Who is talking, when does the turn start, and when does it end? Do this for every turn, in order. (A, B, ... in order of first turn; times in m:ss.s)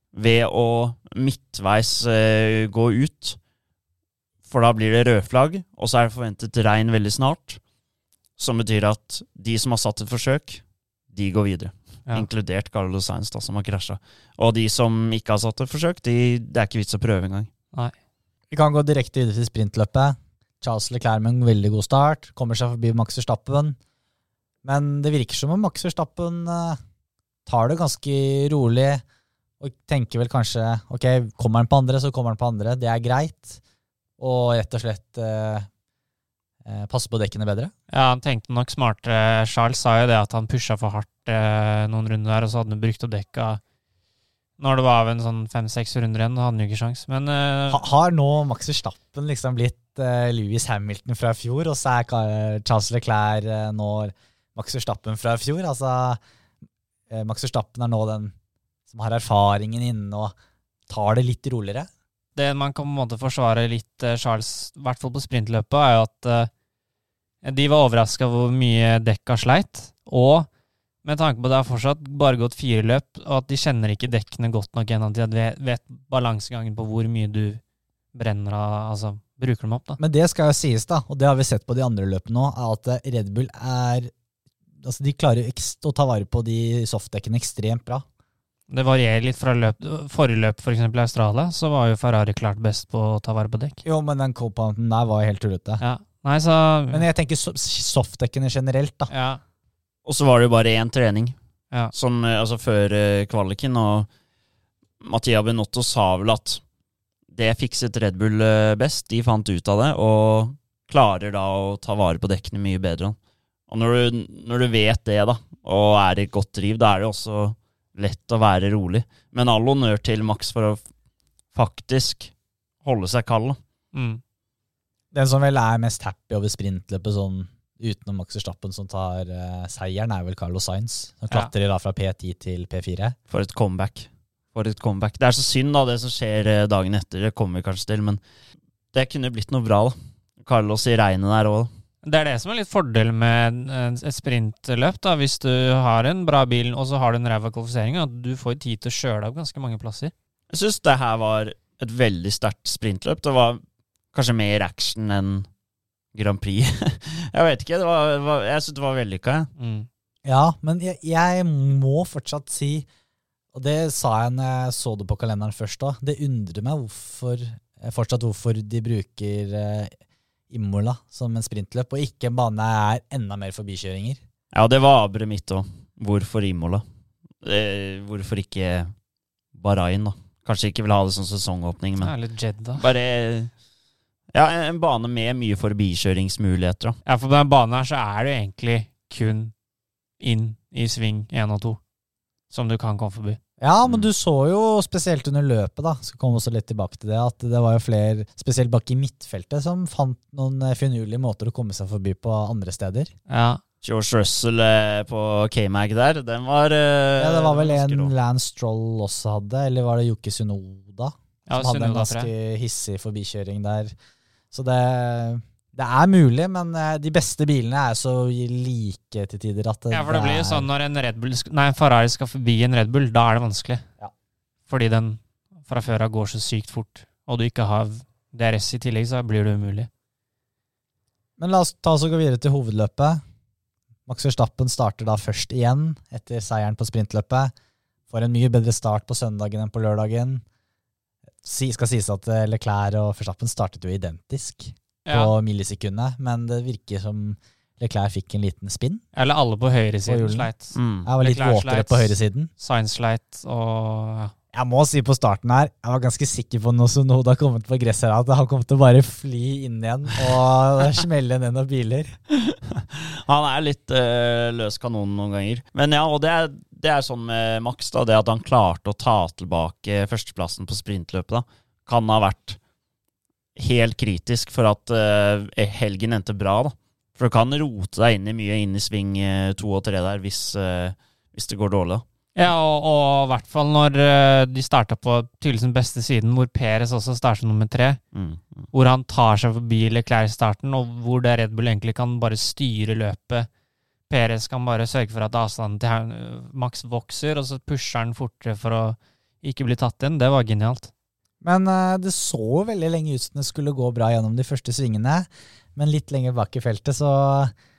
0:00.1-0:03.4 A
0:04.4-0:07.6 A
0:08.4-0:17.5 A
0:18.5-0:23.8 B
0:24.6-0:26.8 B
0:27.5-0:29.0 B
0:29.6-0:33.6 B
0:34.2-0:35.7 B
0:36.6-0:37.7 B
0:37.9-0:43.6 C
0:44.6-0:47.9 C
0:47.7-0:56.2 B
0:57.1-0:58.3 B
0:58.9-1:00.3 B
1:00.9-1:01.9 B
1:02.4-1:06.5 C
1:07.4-1:10.5 C
1:11.0-1:17.6 C
1:18.1-1:20.0 C
1:20.0-1:24.1 B
1:24.8-1:28.0 B
1:28.7-1:33.8 C
1:33.8-1:35.8 B
1:35.8-1:37.0 C
1:36.9-1:39.1 B
1:39.1-1:39.4 C
1:40.0-1:41.4 A
1:41.9-1:44.1 A
1:45.0-1:46.6 A
1:47.3-1:53.2 A
1:53.7-2:00.8 A
2:01.6-2:02.3 A
2:02.8-2:03.6 A
2:03.9-2:04.2 C
2:05.1-2:13.2 B
2:13.3-2:18.2 A
2:18.9-2:21.7 A
2:22.0-2:30.1 C
2:30.5-2:33.6 A
2:34.1-2:35.5 A
2:36.1-2:39.5 A
2:39.6-2:39.9 C
2:40.2-2:42.9 B
2:43.5-2:49.9 B
2:50.5-2:54.2 B
2:54.5-2:56.8 A
2:57.4-2:58.9 A
2:59.6-3:02.1 A
3:02.0-3:02.8 C
3:02.8-3:03.5 A
3:04.3-3:07.0 A
3:07.1-3:09.5 C
3:10.2-3:11.8 C
3:12.5-3:13.4 C
3:13.6-3:23.1 B
3:13.8-3:14.1 A
3:23.3-3:23.6 C
3:23.8-3:28.1 A
3:27.2-3:33.9 B
3:31.5-3:32.3 C
3:34.5-3:40.7 B
3:39.9-3:43.8 C
3:44.7-3:49.9 C
3:51.4-3:53.2 B
3:54.1-3:57.5 B
3:58.1-4:00.4 B
4:01.4-4:09.0 B
4:05.1-4:05.4 C
4:09.1-4:14.3 C
4:10.1-4:10.5 B
4:10.8-4:11.1 A
4:11.0-4:12.5 B
4:14.5-4:22.2 B
4:22.5-4:32.6 A
4:33.6-4:42.0 A
4:42.4-4:48.0 C
4:48.1-4:48.7 A
4:48.7-4:53.5 C
4:54.1-5:00.9 C
5:01.4-5:07.5 B